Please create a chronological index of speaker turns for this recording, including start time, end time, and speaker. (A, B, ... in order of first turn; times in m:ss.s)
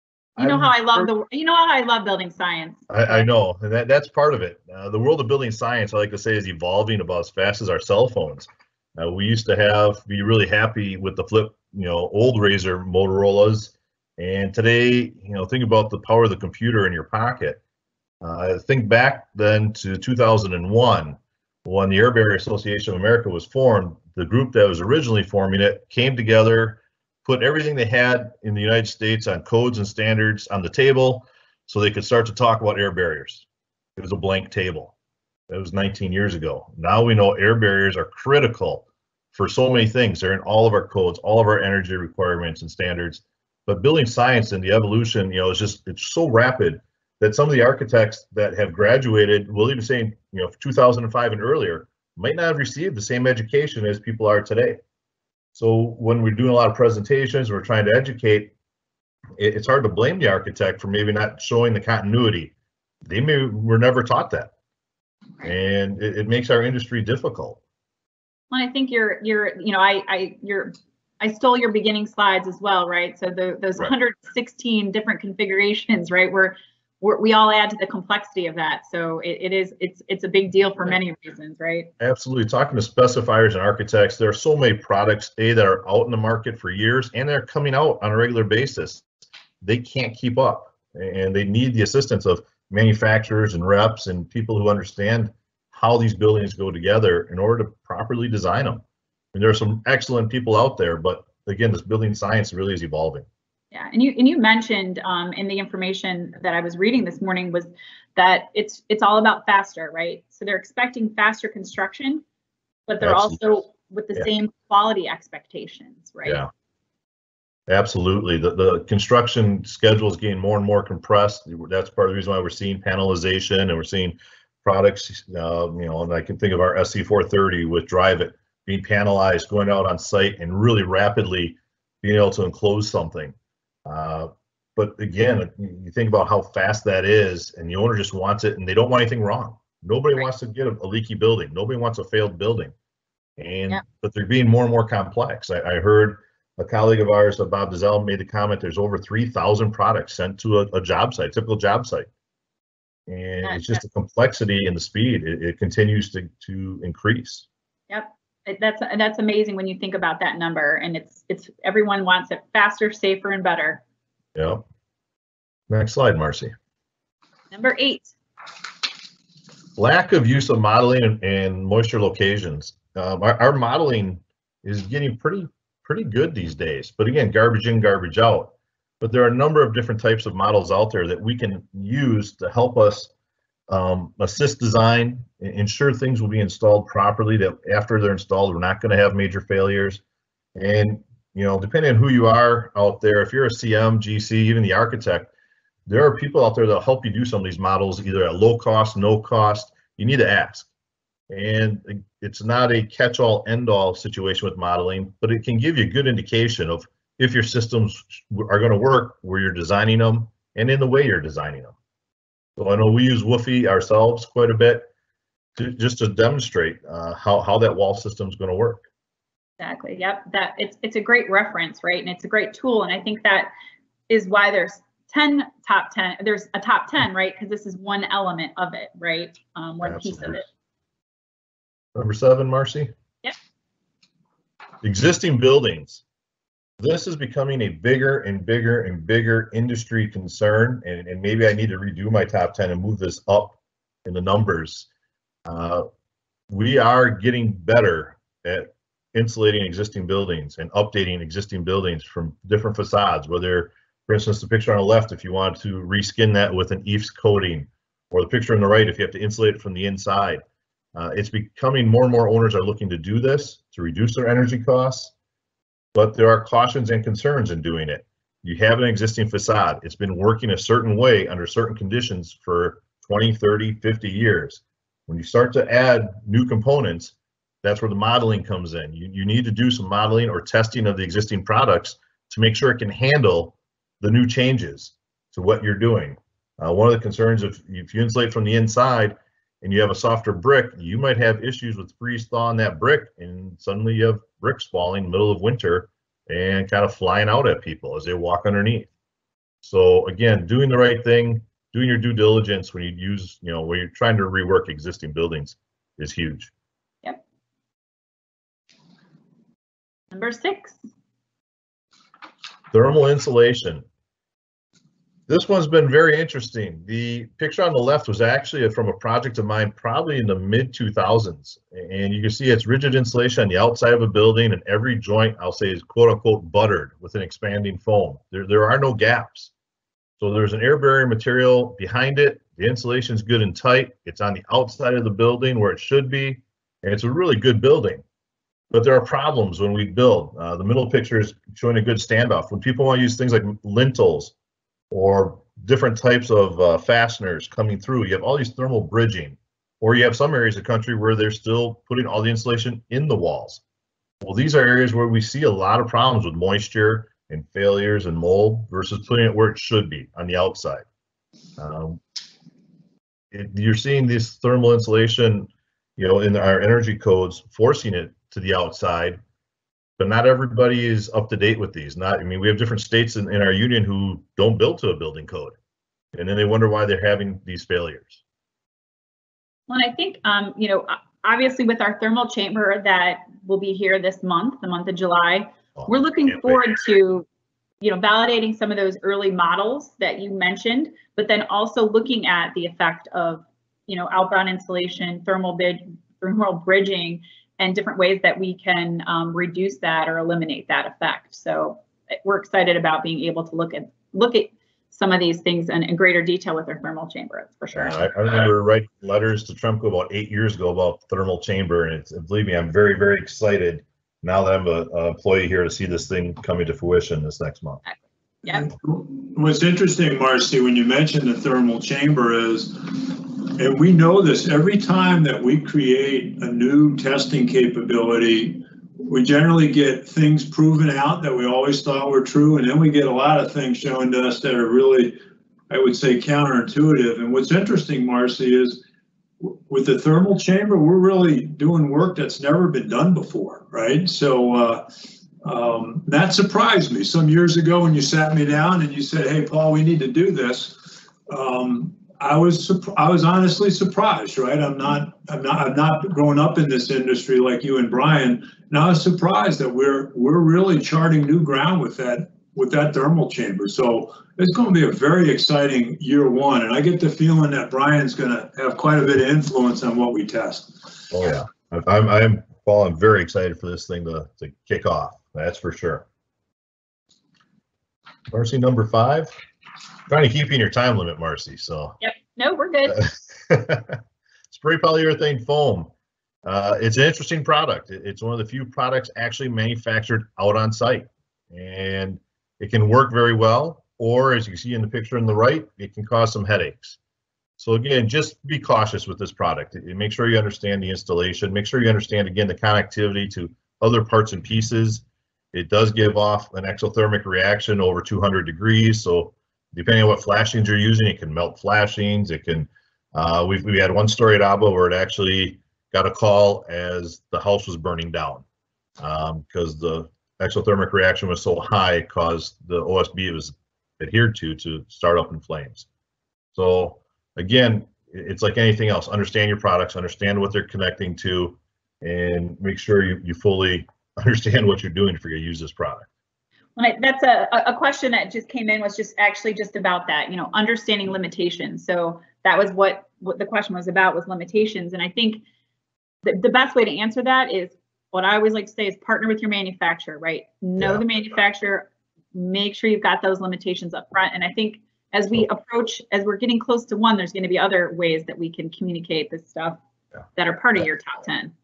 0:00.4-0:01.1 A
0:00.4-0:03.3 B
0:02.9-0:17.6 A
0:18.2-0:33.5 A
0:34.0-0:34.9 A
0:35.5-0:54.8 A
0:55.5-0:58.5 A
0:59.4-1:02.5 A
1:03.0-1:04.5 A
1:05.4-1:07.6 A
1:08.5-1:21.9 B
1:22.0-1:29.0 A
1:29.6-1:38.8 A
1:39.3-1:43.3 A
1:43.7-1:52.2 B
1:52.9-1:56.4 B
1:53.0-1:53.4 A
1:56.2-1:56.5 A
1:57.7-2:13.4 A
2:13.9-2:22.7 A
2:23.4-2:32.1 A
2:33.1-2:37.5 A
2:33.4-2:33.8 B
2:37.9-2:43.8 B
2:44.4-2:44.6 A
2:45.7-2:46.5 A
2:47.5-2:48.2 B
2:49.8-3:03.1 A
3:03.7-3:10.0 A
3:10.6-3:15.3 A
3:15.9-3:20.7 A
3:21.3-3:31.7 A
3:32.6-3:34.9 A
3:35.6-3:38.9 A
3:39.6-3:43.5 B
3:44.1-3:50.5 B
3:49.8-3:50.4 A
3:52.0-3:52.9 A
3:54.8-3:56.0 A
3:56.8-4:04.9 A
4:05.5-4:05.8 A
4:06.5-4:20.4 A
4:21.0-4:25.1 A
4:25.9-4:58.9 A
4:59.6-5:06.5 A
5:10.1-5:10.8 B
5:12.7-5:13.8 A
5:15.3-5:29.5 A
5:30.2-5:38.0 A
5:38.7-5:44.3 A
5:44.9-5:53.6 A
5:54.2-6:00.9 A
6:01.6-6:02.0 A
6:03.3-6:09.2 A
6:10.0-6:15.6 A
6:16.1-6:18.2 A
6:19.7-6:27.3 B
6:25.8-6:26.8 A
6:27.8-6:48.0 B
6:47.8-6:57.8 A
6:57.8-6:58.7 B
6:58.5-7:15.2 C
7:15.7-7:18.8 C
7:19.4-7:24.9 C
7:25.4-7:51.1 C
7:51.1-7:56.1 A
7:58.3-7:59.3 A
8:00.1-8:02.0 A
8:02.0-8:03.1 B
8:02.9-8:05.9 A
8:06.4-8:17.0 A
8:17.6-8:38.4 A
8:39.0-8:45.9 A
8:46.5-8:56.1 A
8:56.8-9:05.4 B
9:06.2-9:19.8 B
9:20.4-9:21.5 B